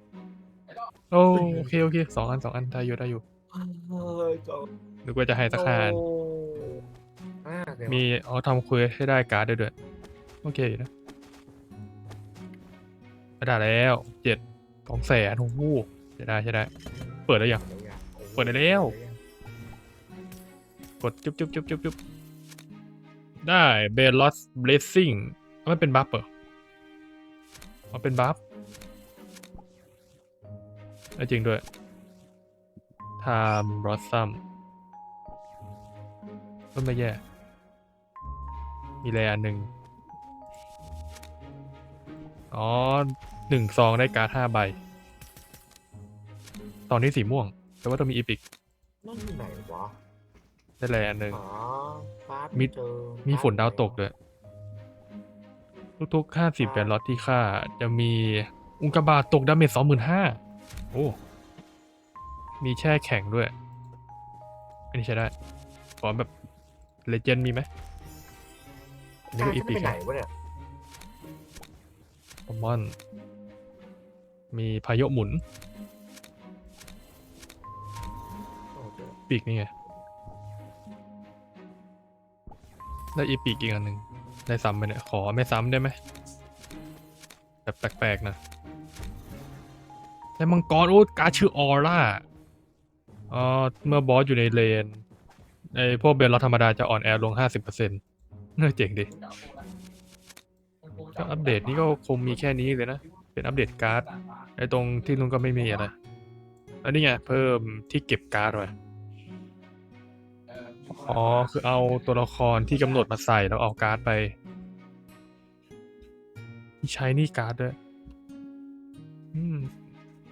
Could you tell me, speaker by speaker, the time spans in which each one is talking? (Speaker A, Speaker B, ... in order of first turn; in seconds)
Speaker A: 1.1-3.2, 5.0-6.0, 7.9-9.7, 10.4-10.9, 13.4-16.7, 17.3-17.6, 18.4-18.9, 21.0-22.0, 23.4-26.3, 27.9-28.4, 31.2-31.6, 33.2-34.4, 36.8-37.2, 39.0-39.7, 42.5-44.8, 46.9-48.4, 50.8-51.4, 53.3-54.1, 56.0-60.4, 62.6-63.5, 64.9-65.3, 66.0-66.3, 67.0-67.7, 69.3-70.0, 72.5-73.0, 74.5-75.4, 79.3-79.7, 83.2-86.0, 87.7-88.4, 90.4-92.2, 93.3-95.0, 95.7-98.0, 98.6-99.1, 101.1-105.9, 106.8-108.7, 110.9-114.3, 116.8-117.8, 119.3-119.8
Speaker B: 1.3-1.8, 3.5-4.7, 5.5-6.8, 7.4-8.1, 17.5-19.2, 49.0-50.0, 51.3-54.0, 56.6-57.0, 69.4-70.3, 78.8-79.2